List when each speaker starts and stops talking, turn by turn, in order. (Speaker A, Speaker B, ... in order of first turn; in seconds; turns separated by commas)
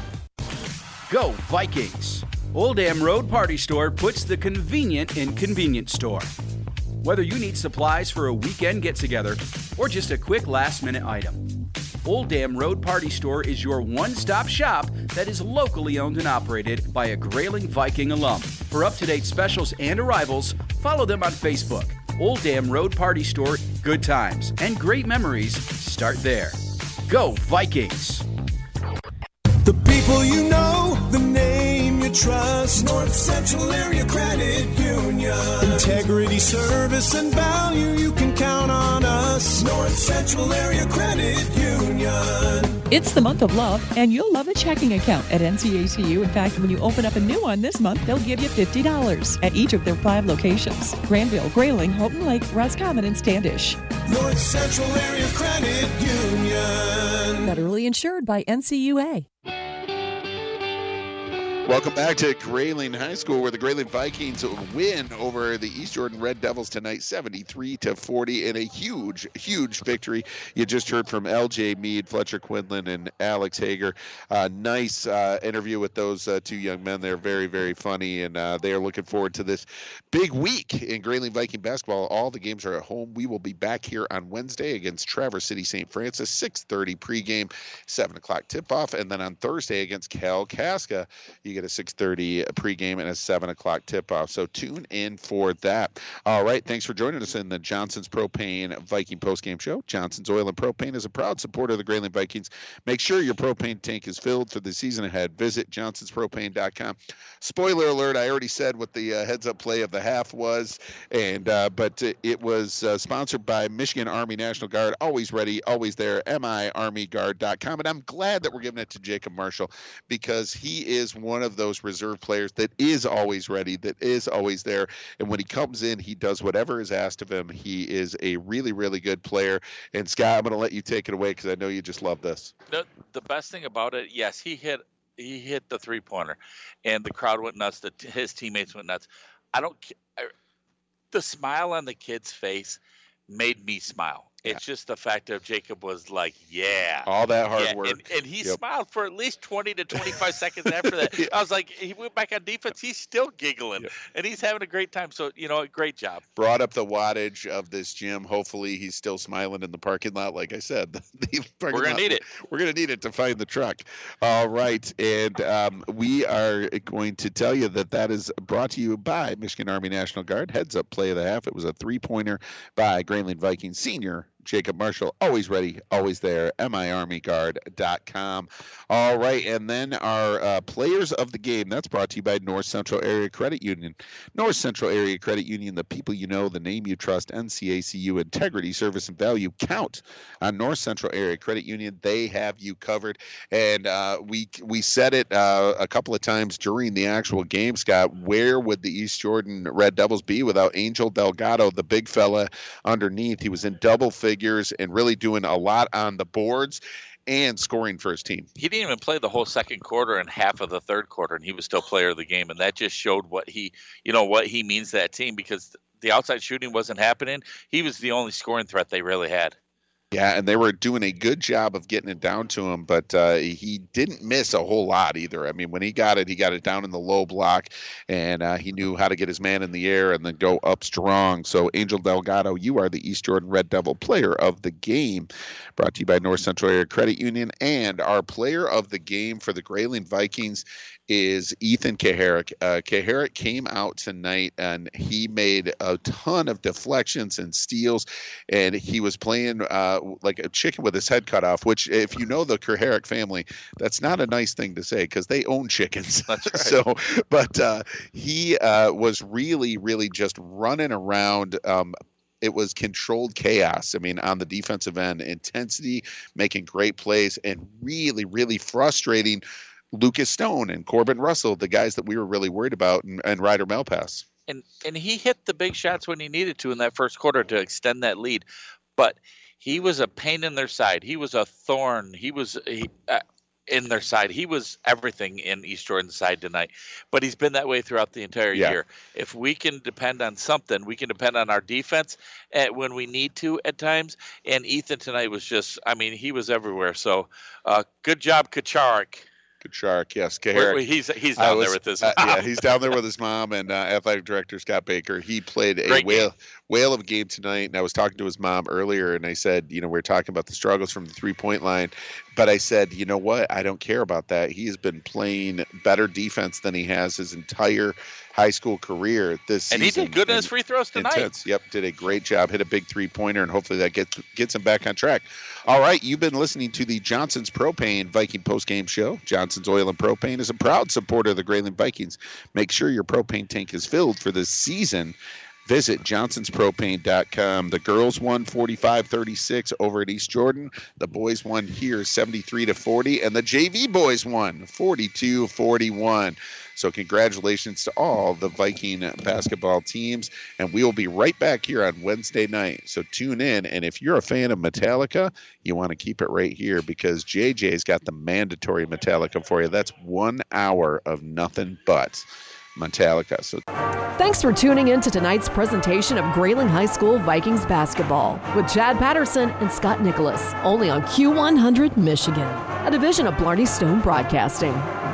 Speaker A: 1.1-6.3, Speaker A: 7.0-11.4, Speaker A: 12.0-28.2, Speaker B: 29.6-42.8, Speaker C: 42.9-53.8, Speaker B: 54.1-57.5, Speaker C: 57.5-59.2, Speaker D: 61.6-132.5, Speaker E: 132.7-140.3, Speaker E: 141.1-156.2, Speaker D: 147.1-148.6, Speaker D: 150.0-151.3, Speaker D: 156.4-208.5, Speaker E: 161.7-162.2, Speaker E: 208.6-219.6, Speaker D: 220.1-274.3, Speaker E: 256.3-256.8, Speaker E: 274.5-278.4, Speaker E: 279.0-299.3, Speaker D: 299.6-300.8, Speaker E: 300.5-302.9, Speaker D: 301.4-363.6, Speaker E: 305.9-306.2, Speaker E: 319.7-321.3, Speaker F: 364.2-374.9